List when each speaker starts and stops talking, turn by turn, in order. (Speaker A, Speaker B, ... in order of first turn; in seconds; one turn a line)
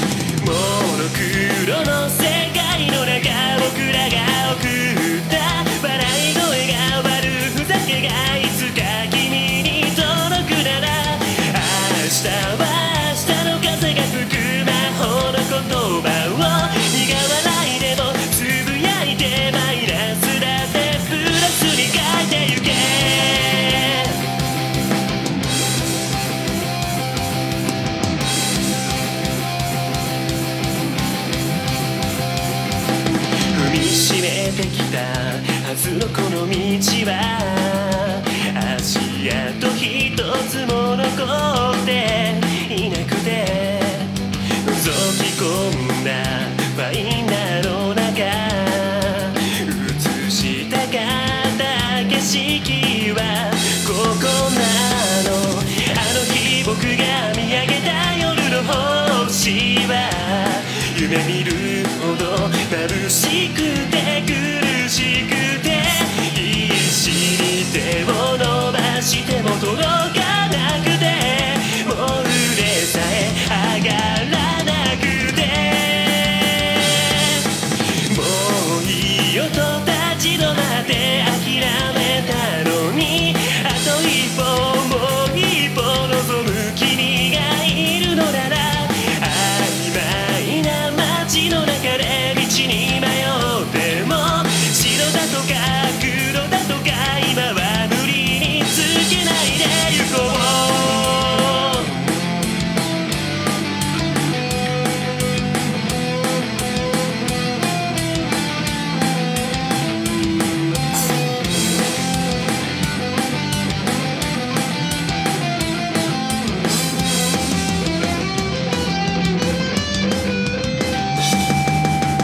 Speaker A: 0.4-24.2
Speaker A: 33.5-102.1